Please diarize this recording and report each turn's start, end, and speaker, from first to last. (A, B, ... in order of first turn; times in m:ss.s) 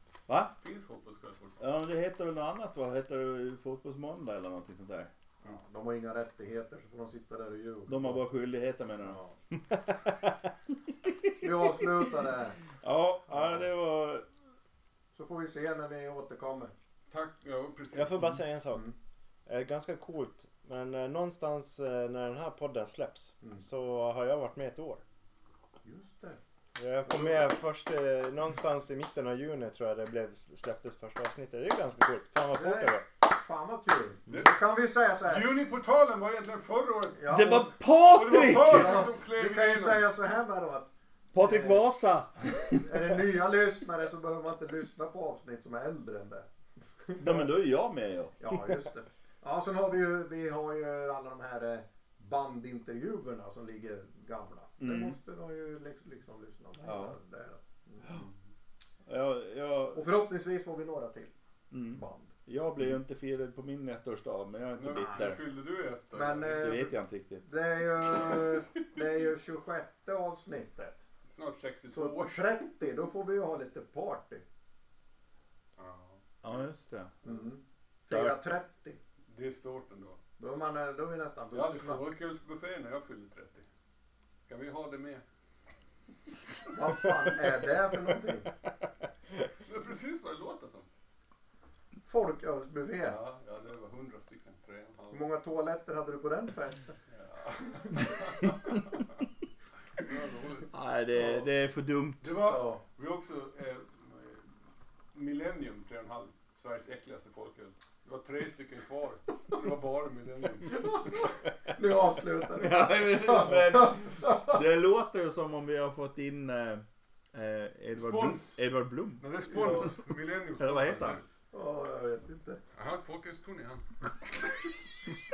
0:00.3-0:00.5 A
0:00.6-0:01.6 B
0:01.6-0:05.1 A
0:05.4-0:08.2 C
0:07.9-0:09.8 A
0:09.0-0:09.3 C
0:11.1-0:12.1 A
0:11.4-0:12.6 C
0:12.8-0:14.2 A
0:13.3-0:13.6 C
0:15.1-0:16.7 C
0:17.1-0:18.4 B
0:17.9-0:18.9 D
0:19.4-0:25.0 D
0:25.8-0:26.4 C
0:26.8-0:33.0 D
0:32.5-0:35.6 C
0:34.3-0:34.6 B
0:35.2-0:37.2 B
0:37.1-0:37.8 C
0:37.3-0:39.1 A
0:38.1-0:40.1 B
0:38.4-0:41.8 C
0:41.3-0:43.2 A
0:42.8-0:46.5 C
0:47.0-0:47.5 C
0:47.2-0:48.4 A
0:48.4-0:58.1 C
0:54.8-0:55.2 A
0:56.8-0:57.2 A
0:59.0-1:00.1 A
0:59.9-1:01.3 C
1:01.7-1:05.4 A
1:01.9-1:02.3 C
1:04.8-1:06.8 B
1:05.0-1:05.2 C
1:06.1-1:11.0 C
1:06.5-1:07.5 A
1:08.2-1:08.5 B
1:11.3-1:12.6 B
1:11.9-1:14.4 C
1:15.8-1:16.6 B
1:16.4-1:17.2 A
1:17.2-1:19.0 C
1:18.1-1:18.4 A
1:19.3-1:20.2 B
1:20.4-1:22.0 C
1:21.5-1:23.6 B
1:24.5-1:25.2 B
1:26.7-1:28.5 C
1:29.6-1:30.9 B
1:32.0-1:33.2 C
1:33.0-1:35.3 B
1:35.1-1:37.0 C
1:37.1-1:39.0 B
1:40.0-1:40.7 B
1:40.7-1:42.4 A
1:41.1-1:41.4 C
1:42.2-1:44.5 B
1:42.4-1:42.8 C
1:45.1-1:51.3 B
1:50.7-1:54.6 C
1:52.5-1:59.3 A
1:57.9-1:58.6 B
1:59.2-2:01.2 B
1:59.5-1:59.9 C
2:00.6-2:01.2 A
2:01.5-2:02.6 C
2:02.7-2:04.7 B